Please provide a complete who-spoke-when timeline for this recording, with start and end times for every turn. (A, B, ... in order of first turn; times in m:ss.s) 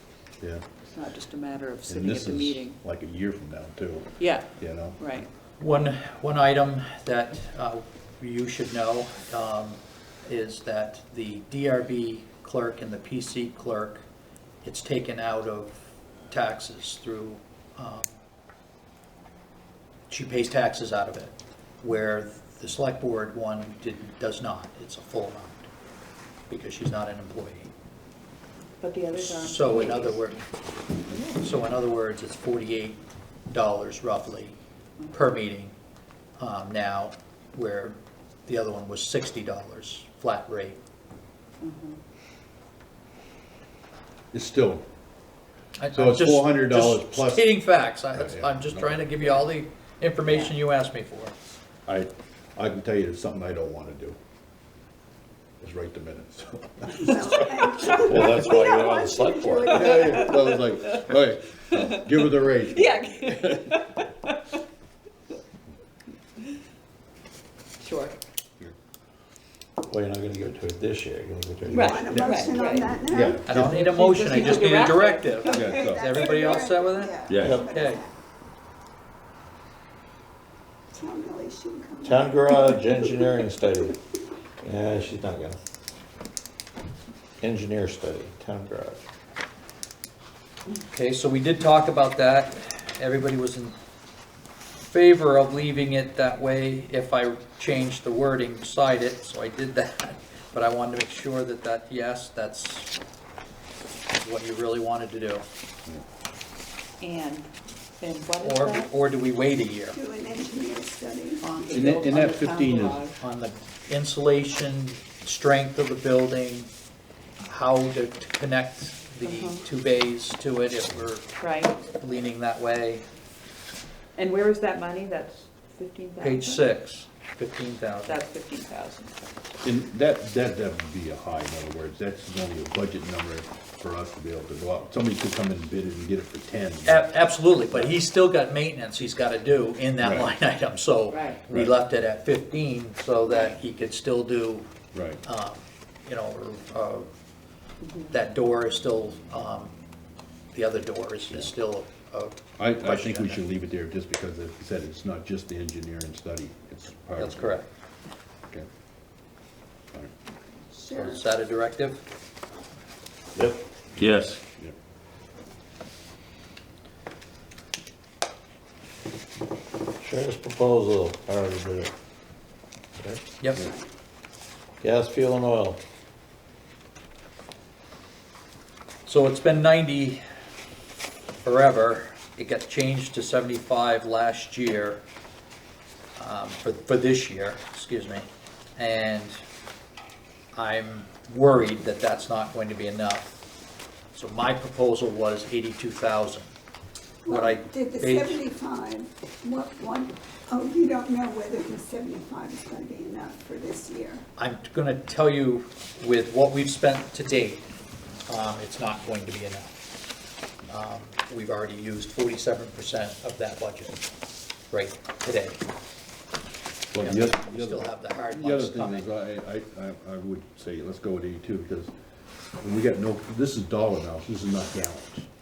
0:00.8-0:02.8 A
0:01.9-0:05.0 B
0:04.2-0:05.3 A
0:05.6-0:14.0 C
0:14.6-0:18.1 C
0:20.1-0:25.7 C
0:26.5-0:27.7 C
0:28.8-0:30.3 A
0:29.2-0:30.4 C
0:31.3-0:34.6 C
0:35.1-0:35.7 C
0:36.4-0:40.8 C
0:41.6-0:42.0 A
0:44.3-0:44.8 B
0:45.8-0:51.3 C
0:45.9-0:47.5 B
0:48.1-0:49.1 B
0:50.3-0:50.5 A
0:51.8-0:54.2 B
0:55.6-0:57.6 B
0:56.9-1:00.5 D
0:57.9-0:59.8 E
0:59.7-1:03.8 B
0:59.8-1:01.1 A
1:01.8-1:02.0 A
1:02.6-1:04.4 A
1:07.8-1:08.2 A
1:09.9-1:12.0 E
1:11.7-1:13.0 A
1:11.8-1:18.1 D
1:12.1-1:13.9 B
1:13.4-1:18.0 C
1:13.7-1:15.6 A
1:15.5-1:16.1 B
1:17.4-1:17.7 E
1:20.9-1:23.9 D
1:22.0-1:24.0 E
1:24.6-1:25.6 E
1:27.4-1:29.0 E
1:30.9-1:33.8 C
1:34.8-1:42.9 C
1:44.2-1:45.4 C
1:47.0-1:48.9 A
1:48.4-1:50.0 C
1:49.9-1:51.9 D
1:51.4-1:53.2 A
1:51.7-1:53.0 B
1:53.2-1:56.7 C
1:57.5-2:01.3 C
1:59.2-1:59.6 A
2:01.4-2:01.8 A
2:01.9-2:03.0 C
2:04.2-2:06.6 A
2:06.2-2:08.2 C
2:08.1-2:09.4 A
2:09.6-2:17.2 B
2:16.8-2:24.7 C
2:17.7-2:18.0 B
2:20.0-2:20.3 B
2:21.1-2:21.4 A
2:21.5-2:21.8 B
2:24.9-2:25.2 B
2:25.2-2:27.1 C
2:27.8-2:28.1 A
2:28.1-2:29.7 C
2:30.5-2:33.4 C
2:32.6-2:37.6 B
2:37.2-2:37.7 C
2:40.7-2:41.2 D
2:40.9-2:42.0 C
2:43.4-2:44.3 E
2:43.4-2:44.8 B
2:50.0-2:51.9 E
2:53.4-2:53.7 C
2:53.6-2:53.8 D
2:54.8-2:55.8 E
2:59.1-3:00.2 C
3:01.4-3:05.0 C
3:06.2-3:09.4 C
3:10.5-3:13.4 C
3:14.1-3:16.5 C
3:17.2-3:24.2 D
3:17.3-3:18.4 C
3:24.4-3:27.6 C
3:28.3-3:29.8 C
3:30.7-3:34.0 C
3:34.7-3:35.6 C
3:36.9-3:41.9 B
3:37.0-3:39.1 C
3:42.6-3:45.2 B